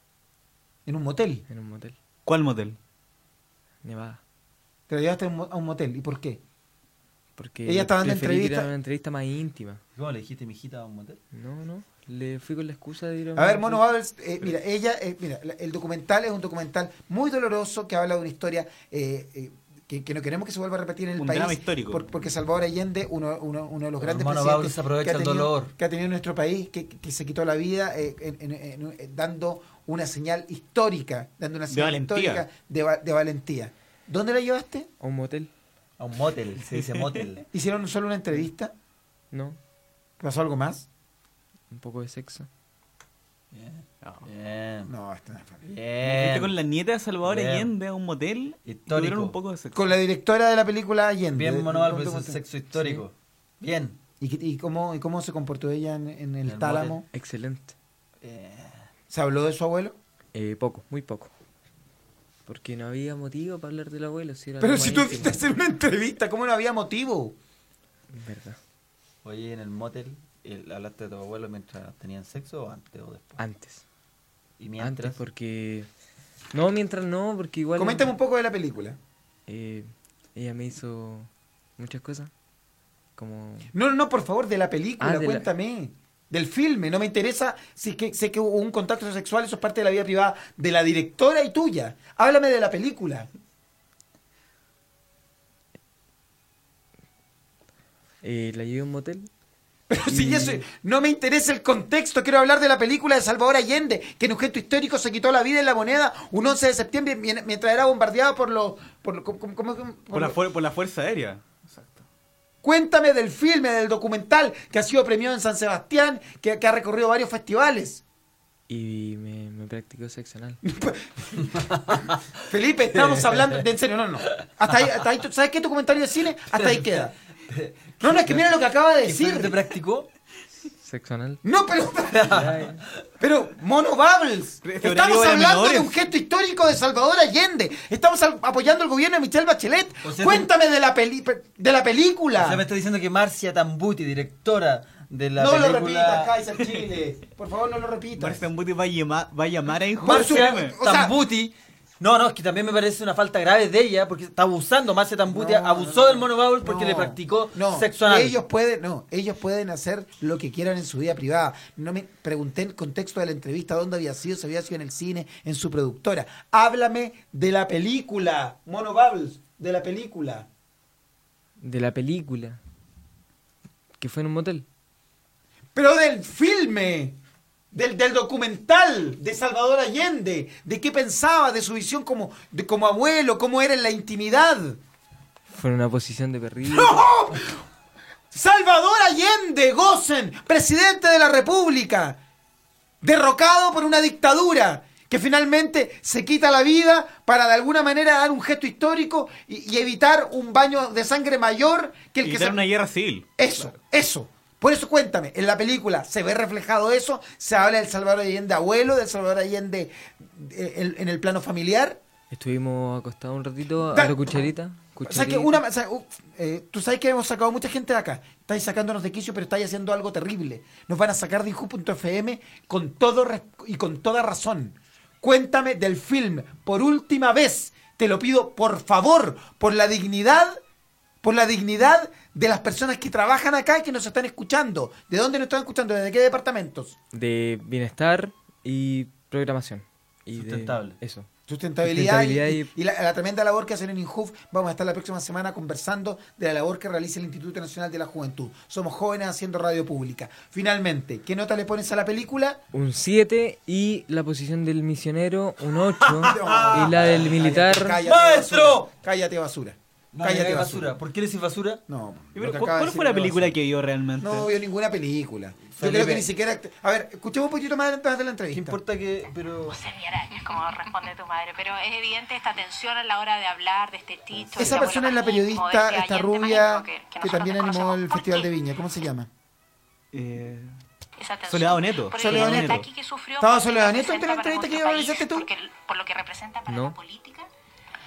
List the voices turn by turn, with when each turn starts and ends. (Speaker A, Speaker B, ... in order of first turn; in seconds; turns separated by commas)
Speaker A: 0.8-1.4, Speaker B: 1.5-1.9, Speaker C: 2.2-2.8, Speaker B: 3.8-4.2, Speaker A: 4.9-6.4, Speaker B: 7.4-9.8, Speaker A: 7.6-8.7, Speaker D: 9.9-11.2, Speaker B: 11.3-13.8, Speaker A: 13.3-34.9, Speaker C: 21.2-22.1, Speaker D: 24.0-25.7, Speaker C: 31.7-32.4, Speaker B: 35.0-35.5, Speaker D: 36.0-37.5, Speaker C: 36.7-37.2, Speaker A: 37.5-38.7, Speaker B: 39.3-39.6, Speaker A: 40.2-40.9, Speaker B: 41.7-42.5, Speaker D: 43.5-44.9, Speaker A: 44.9-45.7, Speaker D: 45.7-46.5, Speaker C: 46.0-49.9, Speaker D: 47.2-47.7, Speaker D: 48.6-49.4, Speaker A: 49.7-52.4, Speaker D: 51.3-54.0, Speaker B: 52.8-53.0, Speaker A: 54.2-57.1, Speaker D: 56.4-57.0, Speaker B: 57.1-57.7, Speaker D: 58.2-58.9, Speaker A: 59.1-60.0, Speaker B: 60.3-61.3, Speaker B: 62.5-65.4, Speaker A: 64.6-67.3, Speaker B: 68.1-68.6, Speaker D: 69.2-73.4, Speaker B: 73.4-73.8, Speaker D: 74.6-75.2, Speaker B: 74.8-75.9, Speaker B: 76.5-78.1, Speaker A: 77.8-79.0, Speaker B: 79.5-82.3, Speaker B: 83.2-83.7, Speaker A: 83.7-93.3, Speaker B: 85.0-85.5, Speaker B: 98.2-99.3, Speaker A: 99.9-110.4, Speaker B: 100.0-100.6, Speaker C: 110.1-112.0, Speaker A: 112.6-118.0, Speaker B: 118.7-120.6, Speaker A: 120.6-121.7, Speaker D: 121.5-122.2, Speaker A: 122.5-127.1, Speaker D: 122.9-123.6, Speaker D: 126.5-128.5, Speaker A: 128.0-129.6, Speaker D: 129.0-130.1, Speaker B: 130.8-131.4, Speaker A: 131.4-132.4, Speaker D: 132.1-132.8, Speaker B: 132.3-132.8, Speaker A: 133.2-142.6, Speaker C: 134.6-136.0, Speaker D: 140.0-140.5, Speaker D: 142.3-146.4, Speaker A: 145.4-148.4, Speaker C: 148.2-150.7, Speaker A: 150.0-151.2, Speaker D: 150.0-158.4, Speaker A: 155.3-170.5, Speaker B: 171.6-172.6, Speaker B: 174.0-174.6, Speaker A: 175.7-177.2, Speaker A: 177.7-184.8, Speaker B: 185.5-187.0, Speaker A: 186.7-187.6, Speaker A: 188.3-192.2, Speaker A: 193.0-202.6, Speaker C: 202.2-203.7, Speaker A: 203.4-212.0, Speaker B: 212.3-215.6, Speaker A: 213.9-214.5, Speaker A: 215.0-230.6, Speaker A: 231.2-237.0, Speaker B: 237.1-241.3, Speaker D: 240.3-241.0, Speaker A: 241.5-252.6, Speaker B: 241.8-242.7, Speaker B: 252.7-258.0, Speaker D: 255.7-258.9, Speaker A: 256.2-261.0, Speaker D: 260.1-261.8, Speaker A: 261.9-263.6, Speaker C: 262.3-264.5, Speaker A: 264.2-268.8, Speaker D: 265.7-266.3, Speaker D: 268.5-269.8, Speaker E: 269.7-278.5, Speaker D: 274.3-274.9, Speaker A: 274.6-279.3, Speaker C: 280.1-280.7, Speaker E: 281.2-287.5, Speaker C: 281.5-282.9, Speaker A: 282.1-282.9, Speaker A: 283.4-285.5, Speaker B: 286.7-286.9